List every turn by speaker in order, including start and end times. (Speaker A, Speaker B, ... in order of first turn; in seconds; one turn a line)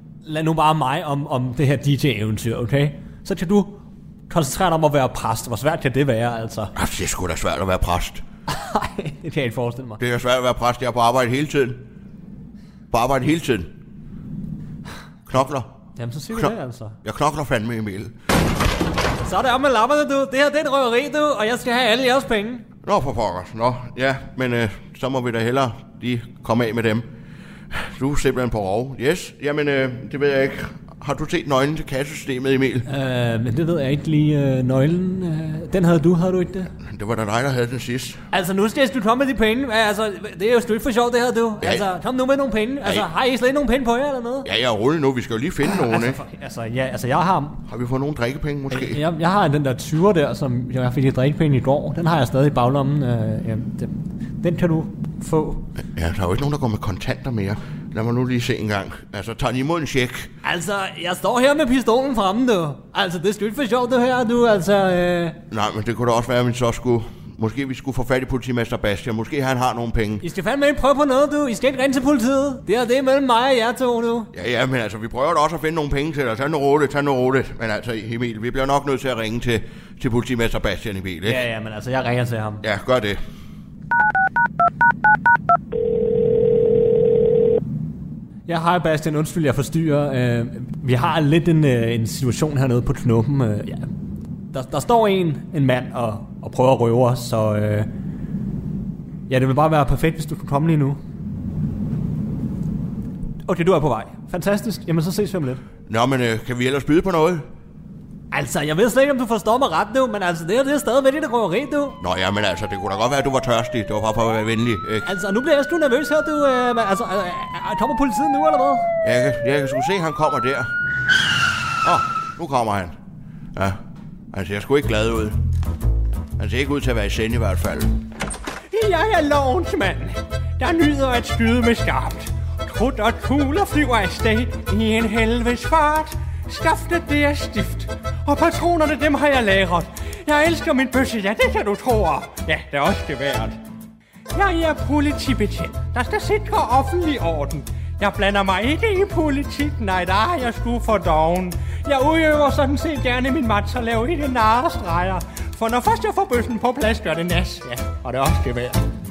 Speaker A: 0.2-6.7
Speaker B: 6.8-8.2
Speaker A: 8.5-10.0
Speaker B: 10.0-11.8
Speaker B: 12.9-13.7
Speaker B: 15.3-15.7
Speaker A: 16.0-17.0
Speaker B: 17.0-18.1
Speaker A: 19.2-22.6
Speaker B: 22.8-27.1
Speaker B: 27.7-32.8
Speaker A: 32.8-36.7
Speaker B: 36.8-38.2
Speaker A: 38.3-44.5
Speaker B: 44.4-46.2
Speaker A: 45.6-47.6
Speaker B: 47.7-49.0
Speaker A: 48.7-55.7
Speaker B: 55.9-60.3
Speaker A: 60.4-65.4
Speaker B: 65.5-70.2
Speaker A: 70.2-74.3
Speaker B: 74.3-81.4
Speaker A: 81.2-82.6
Speaker B: 82.6-83.2
Speaker A: 88.5-93.9
Speaker A: 94.5-97.9
Speaker A: 99.3-101.0
Speaker A: 103.5-105.6
Speaker B: 105.9-107.5
Speaker A: 108.3-112.0
Speaker B: 112.0-115.1
Speaker A: 115.0-118.9
Speaker B: 119.0-120.7
Speaker B: 121.8-122.9
Speaker B: 124.3-125.4
Speaker B: 126.4-127.9
Speaker A: 128.7-143.6
Speaker A: 144.3-158.8